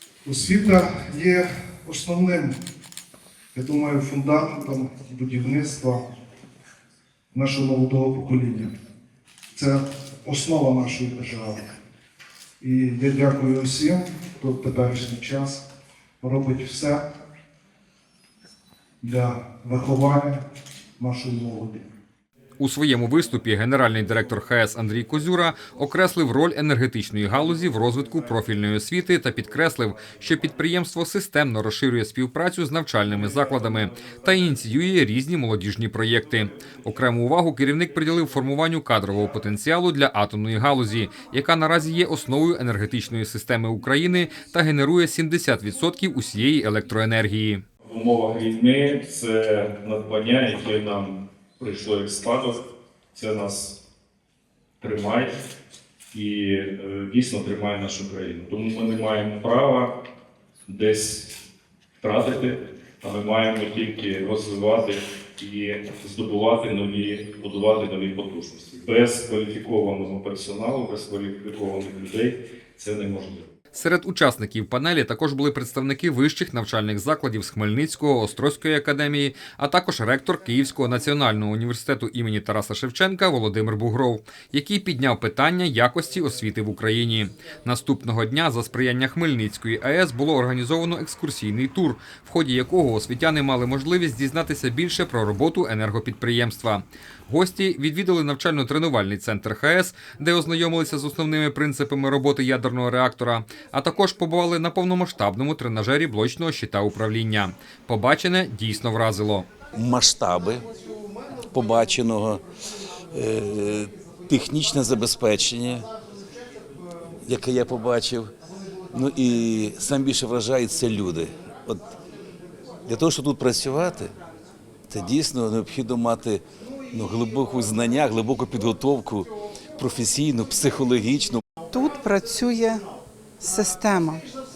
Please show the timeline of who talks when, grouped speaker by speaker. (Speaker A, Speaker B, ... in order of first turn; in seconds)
Speaker A: 0.3-2.6, 3.5-6.0, 7.3-8.7, 9.6-11.7, 12.6-15.6, 16.2-17.0, 19.0-20.4, 21.0-21.9
Speaker B: 22.6-47.6, 73.7-109.5
Speaker C: 47.9-52.6, 53.1-53.8, 54.8-55.3, 56.1-59.9, 60.7-61.3, 62.0-73.5
Speaker D: 109.8-110.7, 111.4-112.4, 113.1-115.9, 117.2-118.3, 118.9-122.0, 122.9-124.1, 124.9-131.4
Speaker E: 131.7-132.8, 133.4-134.2